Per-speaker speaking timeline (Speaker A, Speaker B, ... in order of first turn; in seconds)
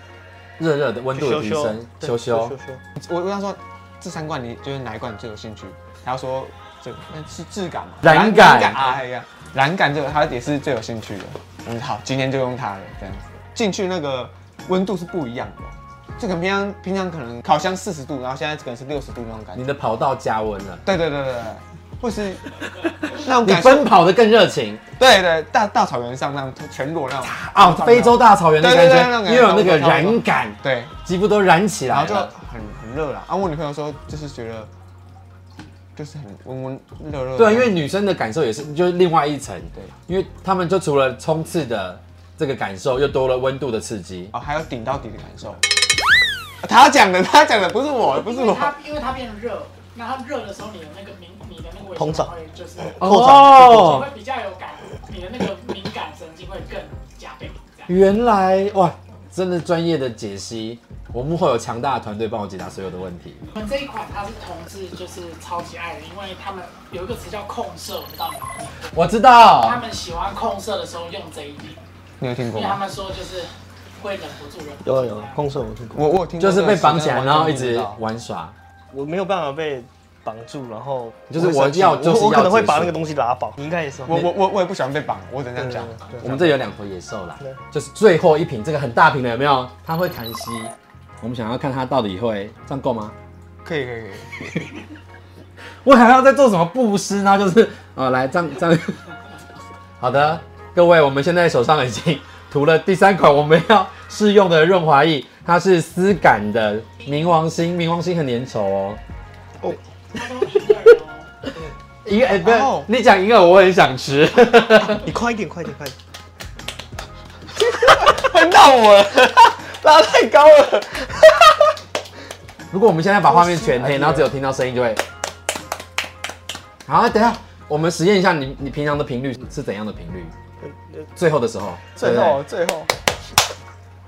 Speaker A: 0.6-2.5, 8.0-8.9, 19.5-20.8, 23.4-24.8, 27.2-32.3, 37.4-44.3, 53.0-54.1, 57.9-63.4, 68.9-69.8, 76.4-78.5, 81.3-83.0, 86.2-93.2, 95.8-99.0, 100.0-109.0, 111.4-115.1, 122.7-125.0, 126.9-130.3, 131.2-132.4
Speaker B: 1.1-2.8, 52.0-52.3, 53.0-53.8, 74.8-76.0, 78.9-84.3, 85.8-86.5, 115.0-116.0
Speaker C: 3.0-19.6, 20.8-22.6, 23.1-23.9, 25.0-30.9, 31.9-34.7, 36.0-37.8, 44.3-45.6, 46.6-48.7, 72.2-72.8, 75.9-78.0, 84.1-86.1, 93.6-94.4, 112.4-112.9, 117.6-121.7, 123.3-124.3, 131.9-132.9
Speaker D: 48.1-57.9, 63.5-68.9, 69.5-71.8, 72.5-75.4, 110.1-111.3